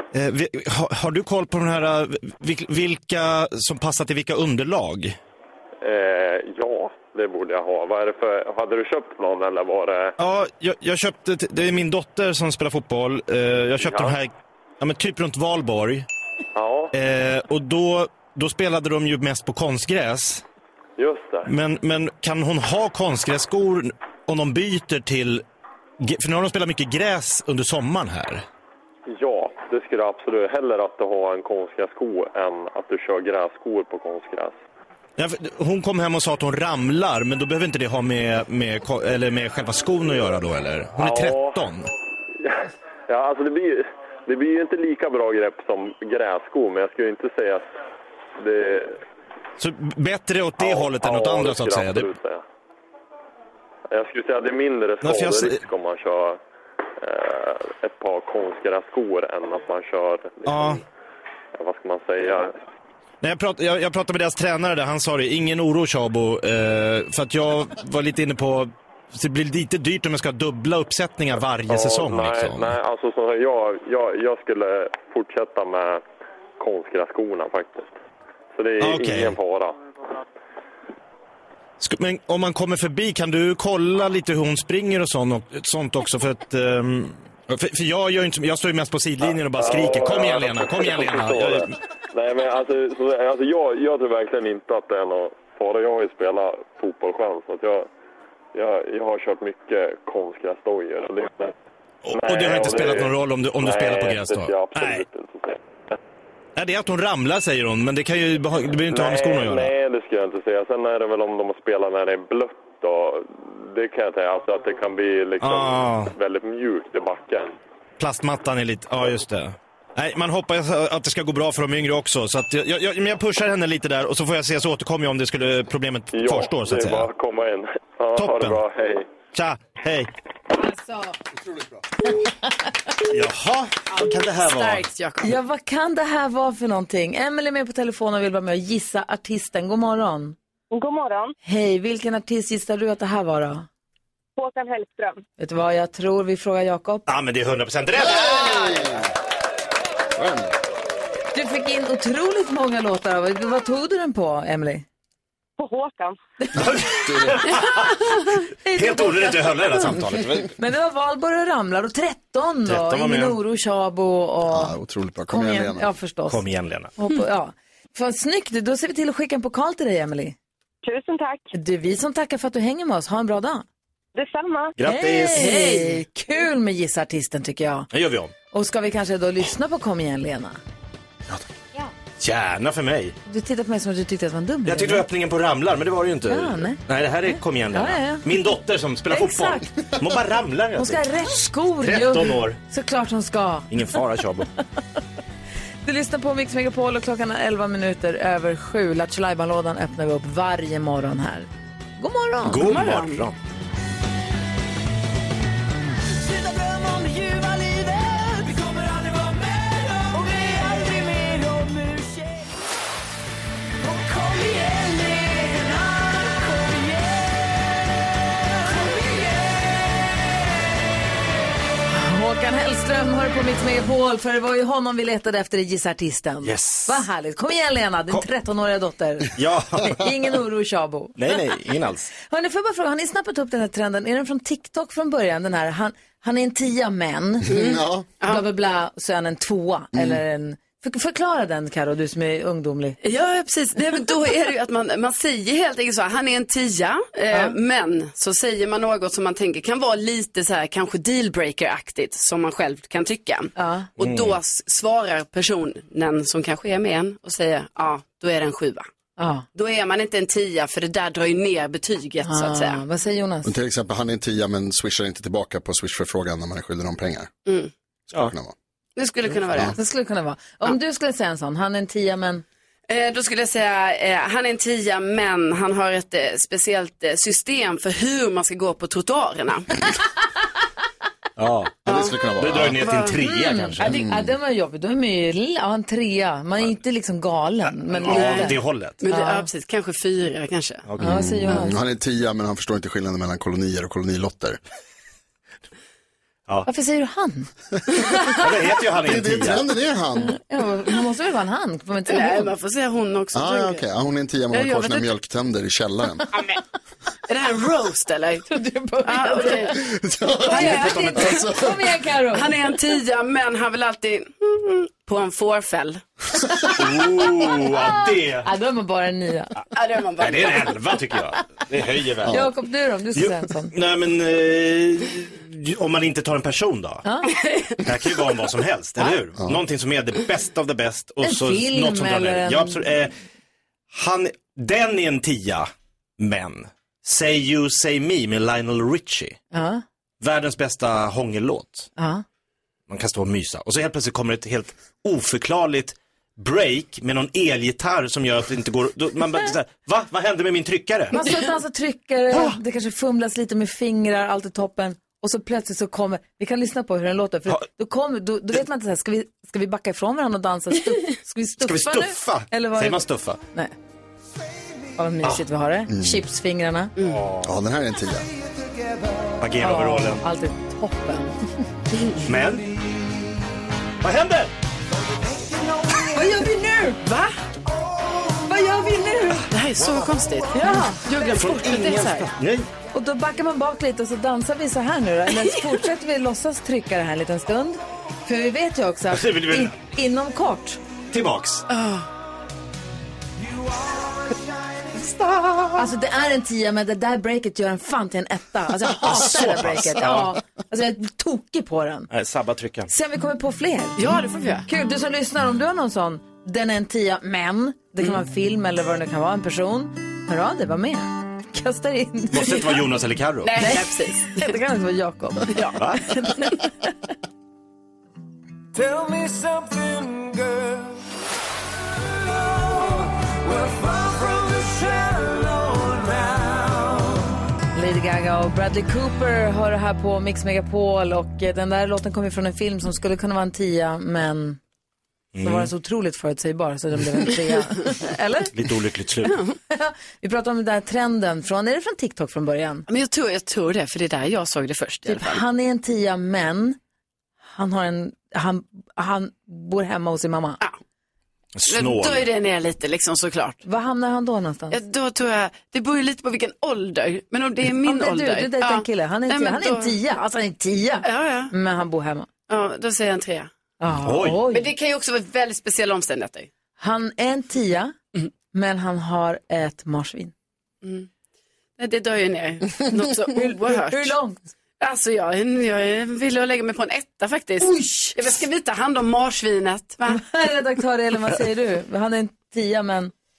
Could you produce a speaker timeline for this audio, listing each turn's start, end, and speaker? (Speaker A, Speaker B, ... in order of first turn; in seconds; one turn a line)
Speaker A: 0.1-5.2
Speaker B: 5.8-10.2
Speaker A: 10.2-16.1
Speaker B: 13.8-14.2
Speaker B: 16.6-16.9
Speaker A: 16.9-20.4
Speaker B: 21.0-21.5
Speaker A: 21.5-25.4
Speaker A: 26.0-28.4
Speaker B: 29.1-34.5
Speaker A: 35.2-41.9
Speaker B: 41.0-41.6
Speaker B: 42.4-47.7
Speaker B: 48.4-49.0
Speaker A: 49.6-52.1
Speaker B: 50.6-52.4
Speaker B: 53.9-56.4
Speaker A: 55.0-55.6
Speaker B: 57.0-60.8
Speaker A: 60.5-60.8
Speaker B: 61.5-62.6
Speaker A: 63.2-72.8
Speaker B: 71.7-76.0
Speaker B: 76.6-77.9
Speaker B: 78.5-79.8
Speaker A: 78.8-79.4
Speaker A: 81.8-91.8
Speaker B: 89.3-97.9
Speaker B: 98.5-101.5
Speaker A: 102.0-105.0
Speaker B: 102.1-105.6
Speaker A: 106.6-109.7
Speaker B: 108.9-117.6
Speaker A: 115.4-116.2
Speaker A: 118.0-127.1
Speaker B: 126.1-129.1
Speaker A: 128.2-128.6
Speaker A: 129.3-130.1
Speaker C: 131.4-131.8
Speaker A: 133.1-134.8
Speaker D: 133.9-135.3
Speaker E: 135.2-140.4
Speaker F: 140.7-141.3
Speaker E: 141.4-143.7
Speaker F: 144.4-145.2
Speaker E: 145.4-147.1
Speaker A: 147.1-148.8
Speaker C: 148.2-149.0
Speaker C: 150.2-150.5
Speaker E: 151.3-154.9
Speaker F: 155.6-156.2
Speaker A: 156.5-158.1
Speaker E: 158.6-160.0
Speaker A: 158.7-160.5
Speaker E: 160.6-164.8
Speaker A: 162.7-163.4
Speaker C: 164.5-165.9
Speaker E: 165.3-166.4
Speaker A: 166.3-166.9
Speaker E: 167.0-170.4
Speaker F: 170.8-171.5
Speaker E: 171.5-173.7
Speaker F: 174.2-174.8
Speaker A: 174.8-175.8
Speaker E: 174.8-177.9
Speaker D: 175.4-175.9
Speaker A: 177.9-178.3
Speaker E: 178.5-180.6
Speaker A: 182.1-183.2
Speaker E: 183.3-185.1
Speaker A: 184.7-191.1
Speaker E: 186.3-188.5
Speaker E: 189.1-189.7
Speaker E: 190.8-194.0
Speaker A: 191.8-192.6
Speaker A: 193.7-194.5
Speaker E: 195.8-202.8
Speaker A: 202.4-203.4
Speaker D: 202.6-203.3
Speaker G: 206.2-212.5
Speaker G: 213.8-217.5
Speaker G: 218.8-219.3
Speaker E: 221.9-231.5
Speaker A: 226.4-227.1
Speaker A: 229.3-230.0
Speaker A: 231.2-232.1
Speaker E: 232.2-237.6
Speaker D: 237.5-238.4
Speaker C: 237.5-238.1
Speaker E: 238.2-243.0
Speaker C: 239.9-240.2
Speaker D: 243.0-258.9
Speaker E: 253.6-253.9
Speaker A: 254.0-254.4
Speaker E: 259.2-259.5
Speaker D: 259.5-262.8
Speaker E: 262.2-263.5
Speaker C: 263.4-267.3
Speaker D: 267.5-267.7
Speaker C: 268.1-268.5
Speaker D: 269.0-269.8
Speaker E: 269.8-272.4
Speaker D: 272.9-279.7
Speaker A: 281.4-281.8
Speaker C: 281.9-282.8
Speaker D: 281.9-283.2
Speaker A: 282.4-284.0
Speaker E: 283.2-288.6
Speaker C: 283.9-284.3
Speaker A: 288.0-289.0
Speaker D: 288.0-290.9
Speaker E: 289.1-289.5
Speaker A: 290.9-291.2
Speaker E: 291.0-291.8
Speaker C: 291.0-294.6
Speaker E: 296.7-297.5
Speaker A: 298.3-299.6
Speaker C: 299.0-300.4
Speaker E: 300.3-302.5
Speaker D: 302.1-303.9
Speaker C: 303.3-306.2
Speaker D: 304.5-305.1
Speaker D: 307.3-308.5
Speaker E: 308.5-309.8
Speaker D: 309.0-309.8
Speaker C: 309.9-311.8
Speaker E: 310.5-312.5
Speaker D: 310.5-311.5
Speaker D: 312.3-316.0
Speaker A: 316.8-318.5
Speaker E: 318.4-319.6
Speaker D: 319.8-320.9
Speaker A: 320.2-322.5
Speaker E: 322.3-323.7
Speaker A: 323.1-327.0
Speaker E: 327.1-327.3
Speaker D: 327.4-327.8
Speaker A: 327.8-333.1
Speaker E: 331.2-332.9
Speaker A: 333.9-339.4
Speaker E: 339.5-339.8
Speaker A: 340.2-341.9
Speaker E: 342.0-342.2
Speaker A: 342.9-351.3
Speaker E: 351.1-363.7
Speaker A: 361.6-363.4
Speaker E: 365.0-366.9
Speaker C: 365.9-366.2
Speaker C: 367.4-368.3
Speaker A: 369.4-370.2
Speaker E: 369.6-371.4
Speaker D: 371.9-372.3
Speaker A: 372.2-372.8
Speaker A: 374.0-374.5
Speaker E: 376.1-377.0
Speaker D: 377.0-377.3
Speaker E: 378.3-379.5
Speaker D: 379.5-382.3
Speaker E: 380.5-381.7
Speaker A: 381.3-382.7
Speaker E: 382.9-390.8
Speaker A: 389.1-389.8
Speaker A: 391.1-391.6
Speaker D: 391.7-392.1
Speaker A: 395.0-395.8
Speaker E: 395.7-402.1
Speaker A: 399.0-400.4
Speaker A: 402.1-402.9
Speaker E: 402.9-404.1
Speaker D: 404.0-404.7
Speaker E: 404.7-412.8
Speaker A: 412.3-413.6
Speaker D: 413.4-414.6
Speaker E: 413.6-416.7
Speaker D: 415.5-416.0
Speaker A: 415.8-416.1
Speaker G: 423.5-426.3
Speaker E: 427.7-434.6
Speaker A: 435.4-435.7
Speaker E: 435.4-438.5
Speaker A: 438.5-439.4
Speaker D: 439.2-439.5
Speaker E: 439.7-442.9
Speaker D: 442.9-445.4
Speaker E: 445.1-446.8
Speaker E: 447.5-450.6
Speaker A: 451.6-452.3
Speaker D: 451.7-453.6
Speaker E: 453.6-454.8
Speaker D: 454.7-460.0
Speaker E: 457.8-462.3
Speaker D: 461.0-461.5
Speaker D: 462.5-463.5
Speaker E: 463.8-464.7
Speaker A: 464.0-464.4
Speaker D: 464.5-466.5
Speaker E: 466.8-467.9
Speaker E: 468.5-470.3
Speaker D: 470.8-471.1
Speaker D: 471.8-474.2
Speaker E: 473.3-474.4
Speaker D: 474.8-480.2
Speaker E: 477.6-478.2
Speaker E: 480.1-483.1